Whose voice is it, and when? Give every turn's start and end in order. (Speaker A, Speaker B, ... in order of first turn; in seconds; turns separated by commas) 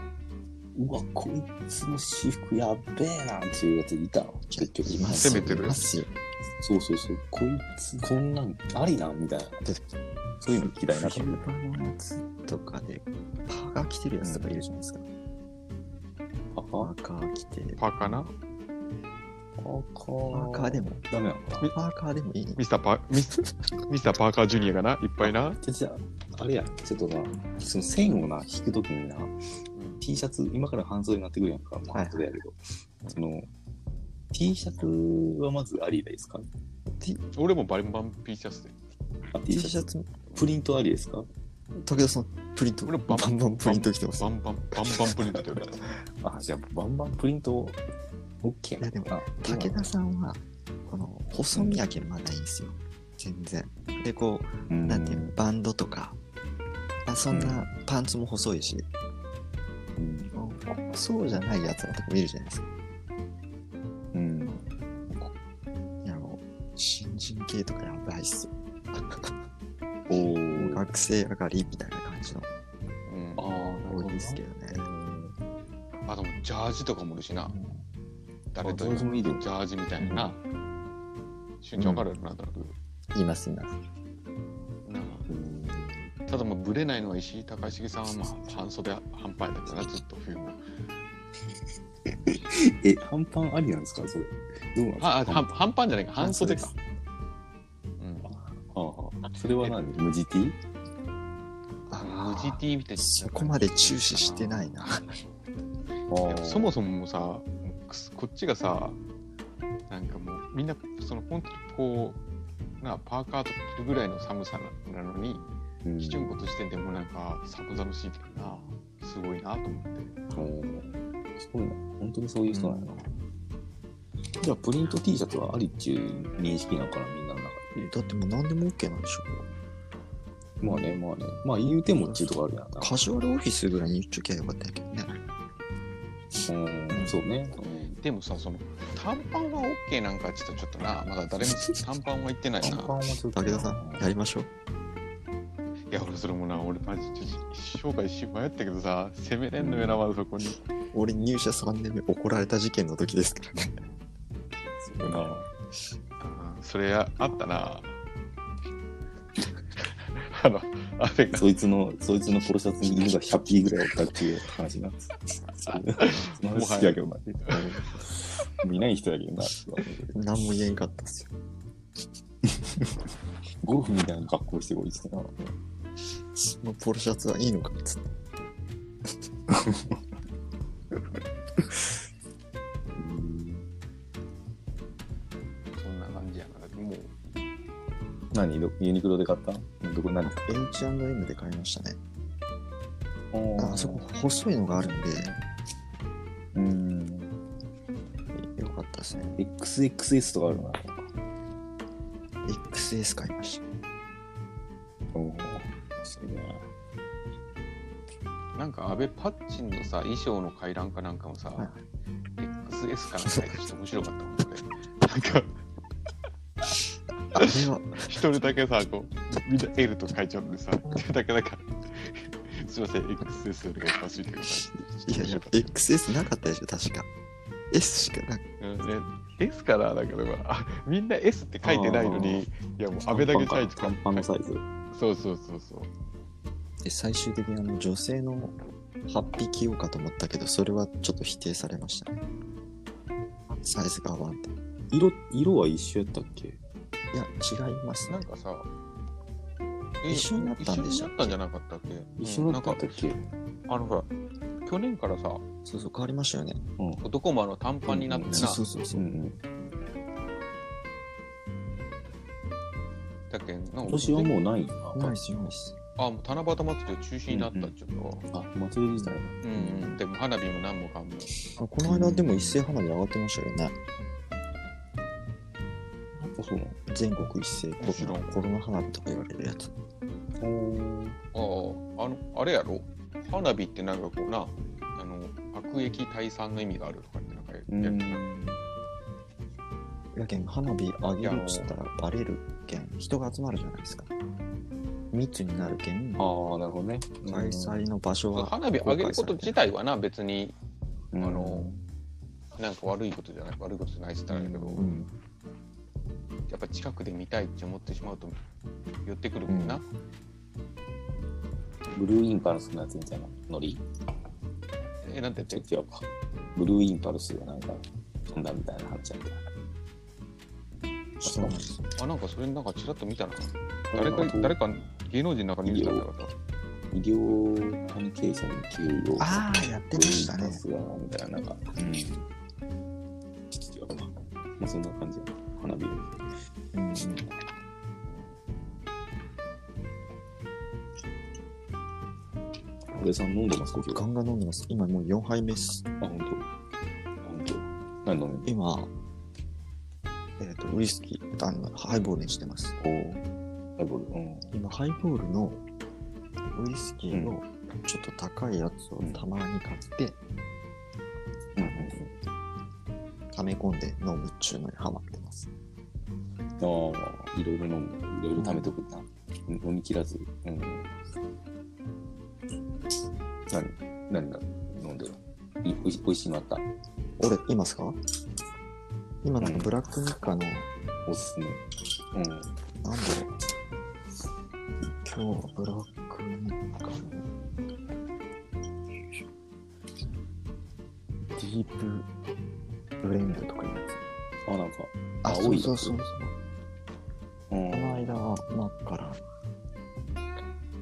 Speaker A: 0.8-5.8, Speaker B: 4.5-6.1, Speaker C: 5.0-5.8, Speaker A: 6.6-9.7, Speaker A: 10.4-11.4, Speaker B: 10.9-15.0, Speaker A: 14.2-14.6, Speaker A: 16.5-16.9, Speaker B: 16.8-18.3, Speaker C: 17.8-18.3, Speaker A: 19.6-21.7, Speaker B: 20.3-21.1, Speaker B: 21.7-22.6, Speaker C: 22.6-23.4, Speaker C: 23.9-25.6, Speaker A: 25.2-29.4, Speaker C: 29.8-30.0, Speaker A: 30.0-33.5, Speaker B: 31.9-32.3, Speaker A: 34.3-36.5, Speaker C: 37.3-38.8, Speaker A: 39.3-41.3, Speaker B: 39.5-40.1, Speaker B: 41.8-44.4, Speaker C: 42.9-45.8, Speaker A: 46.2-47.8, Speaker A: 48.4-49.9, Speaker B: 48.8-56.2, Speaker A: 51.5-51.8, Speaker A: 54.7-55.4, Speaker B: 57.0-58.9, Speaker A: 57.3-57.7, Speaker A: 60.0-60.3, Speaker B: 60.4-62.7, Speaker A: 64.1-64.7, Speaker B: 65.1-65.3, Speaker B: 66.0-69.4, Speaker A: 70.1-70.9, Speaker B: 70.5-72.5, Speaker C: 73.1-73.7, Speaker A: 73.4-75.3, Speaker B: 73.8-74.8, Speaker C: 76.1-77.5, Speaker B: 77.5-77.9, Speaker C: 78.5-80.4, Speaker A: 78.6-79.5, Speaker B: 80.0-80.3, Speaker C: 81.6-82.8, Speaker B: 81.8-82.1, Speaker B: 83.1-83.8, Speaker C: 84.8-85.3, Speaker A: 85.3-86.1, Speaker C: 86.3-90.6, Speaker A: 92.1-95.6, Speaker C: 95.0-96.7, Speaker B: 96.2-96.7, Speaker C: 98.0-98.3, Speaker A: 98.2-100.6, Speaker B: 101.9-105.1, Speaker C: 102.0-105.0, Speaker A: 106.1-106.8, Speaker C: 106.2-109.0, Speaker C: 109.9-112.2, Speaker C: 112.8-115.5, Speaker A: 115.8-116.5, Speaker C: 116.0-120.1, Speaker A: 120.3-123.1, Speaker B: 122.5-122.8, Speaker A: 124.4-127.9, Speaker B: 127.8-129.5, Speaker A: 130.6-133.1, Speaker B: 130.7-131.0, Speaker B: 131.9-135.1, Speaker A: 136.4-138.0, Speaker B: 136.9-137.2, Speaker C: 138.0-143.0, Speaker A: 142.6-144.1, Speaker B: 143.3-144.5, Speaker C: 145.9-150.6, Speaker A: 149.6-150.0, Speaker B: 150.9-153.8, Speaker B: 154.8-155.3, Speaker A: 155.0-155.5, Speaker C: 156.2-157.9, Speaker C: 160.0-161.4, Speaker A: 161.3-170.2, Speaker C: 165.7-167.0, Speaker B: 170.1-171.3, Speaker A: 172.5-172.9, Speaker A: 173.6-175.4, Speaker B: 176.3-178.0, Speaker A: 179.5-180.0, Speaker A: 182.9-183.7, Speaker C: 185.7-187.2, Speaker A: 188.3-190.7, Speaker B: 190.5-192.0, Speaker A: 193.3-194.2, Speaker B: 193.6-195.3, Speaker A: 194.7-195.4, Speaker A: 196.5-197.4, Speaker B: 198.4-199.4, Speaker A: 199.3-201.1, Speaker B: 202.5-203.7, Speaker A: 205.1-206.7, Speaker C: 208.6-211.7, Speaker C: 212.4-215.5, Speaker B: 217.3-218.2, Speaker C: 218.1-225.7, Speaker B: 225.1-227.1, Speaker B: 227.7-228.4, Speaker C: 228.6-234.3, Speaker A: 231.6-232.4, Speaker A: 233.0-234.7, Speaker C: 234.9-235.9, Speaker B: 236.8-242.2, Speaker B: 243.5-244.5, Speaker A: 244.9-246.6, Speaker B: 247.1-248.2, Speaker C: 248.1-248.7, Speaker C: 250.0-253.0, Speaker B: 250.1-251.4, Speaker A: 252.2-253.2, Speaker C: 253.7-254.1, Speaker C: 254.6-255.4, Speaker B: 255.7-256.6, Speaker A: 256.8-257.1, Speaker C: 257.0-258.6, Speaker A: 257.9-259.4, Speaker B: 258.3-259.1, Speaker C: 263.3-264.4, Speaker A: 263.9-265.1, Speaker B: 264.9-265.8, Speaker C: 266.0-268.2, Speaker A: 267.3-267.7, Speaker A: 268.3-270.0, Speaker C: 269.4-271.4, Speaker B: 271.6-273.8, Speaker A: 271.8-272.6, Speaker A: 276.4-276.8, Speaker B: 276.9-279.7, Speaker C: 277.8-278.3, Speaker A: 280.4-281.2, Speaker C: 281.3-288.2, Speaker A: 287.7-288.6, Speaker B: 290.1-294.1, Speaker A: 291.2-291.7, Speaker B: 295.1-296.3, Speaker A: 295.6-297.8, Speaker B: 297.3-299.6, Speaker C: 298.3-300.6, Speaker A: 301.1-301.8, Speaker C: 301.2-301.7, Speaker C: 302.6-304.8, Speaker A: 304.3-305.1, Speaker B: 304.8-305.1, Speaker C: 306.5-308.4, Speaker C: 309.1-309.9, Speaker B: 309.5-309.8, Speaker A: 311.9-313.8, Speaker C: 315.0-315.6, Speaker A: 315.5-319.5, Speaker B: 321.2-321.8, Speaker A: 321.2-321.8, Speaker C: 322.0-326.3, Speaker A: 323.9-324.6, Speaker A: 325.6-326.1, Speaker A: 326.9-332.3, Speaker B: 329.2-330.6, Speaker A: 333.5-336.2, Speaker B: 336.7-337.3, Speaker A: 342.9-344.1, Speaker B: 343.7-345.9, Speaker A: 346.0-346.5, Speaker A: 347.2-348.5, Speaker B: 348.4-348.9, Speaker B: 350.4-352.8, Speaker A: 352.8-353.3, Speaker A: 353.8-354.6, Speaker B: 354.5-355.6, Speaker B: 356.6-360.2, Speaker A: 357.1-357.4, Speaker A: 359.0-359.3, Speaker A: 361.6-362.2, Speaker B: 361.6-361.9, Speaker B: 363.3-365.5, Speaker A: 366.6-370.9, Speaker B: 368.4-368.7, Speaker A: 373.5-376.7, Speaker B: 377.2-378.0, Speaker B: 379.2-380.7, Speaker A: 379.4-379.7, Speaker A: 381.1-381.6, Speaker A: 382.1-382.5, Speaker B: 382.8-383.3, Speaker B: 385.0-387.3, Speaker B: 391.4-392.1, Speaker B: 393.0-394.0, Speaker A: 394.5-396.0, Speaker B: 395.2-396.3, Speaker A: 397.5-398.2, Speaker B: 397.7-399.2